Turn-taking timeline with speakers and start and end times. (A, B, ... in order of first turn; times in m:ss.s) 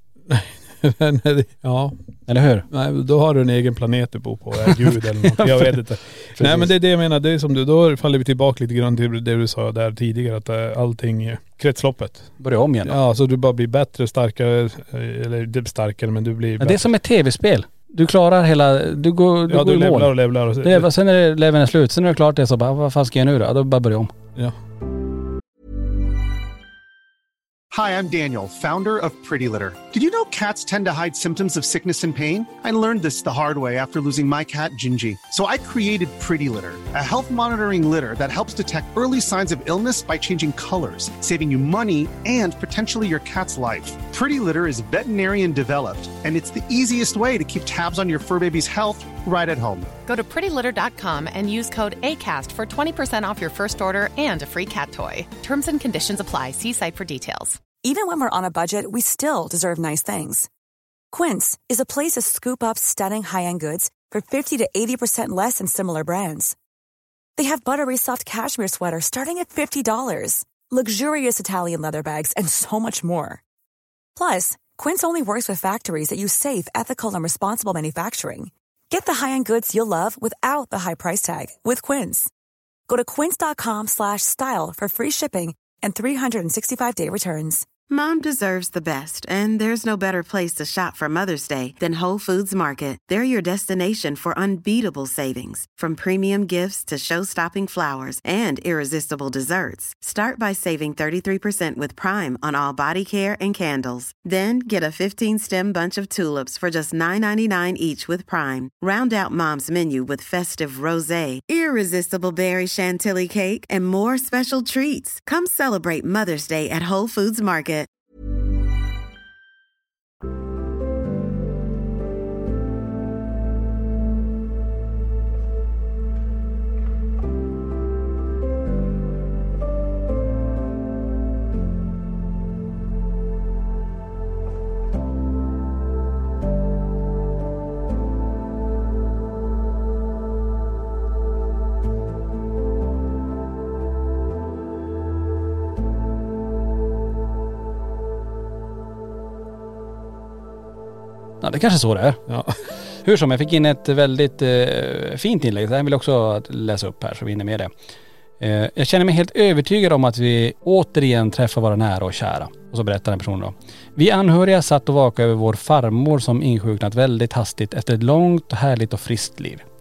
0:00.3-0:02.0 A
0:02.3-0:02.6 B
0:02.7-0:12.3 A
0:04.6-0:05.8 B
0:06.4-0:06.7 B
0:12.4-0:13.0 B
0:12.8-0:16.9 A
0:16.6-0:24.1 B
0:19.5-0:20.9 A
0:27.7-0:49.9 C
0:50.1-0:57.6 D
0:57.8-1:00.5 E
1:01.1-1:06.5 E
1:07.4-1:13.4 E
1:14.2-1:22.3 E
1:22.9-1:27.6 E
1:27.9-1:57.9 F
2:31.4-2:32.2 B
2:32.3-2:32.5 A
2:32.9-2:37.7 B
2:38.4-2:49.6 B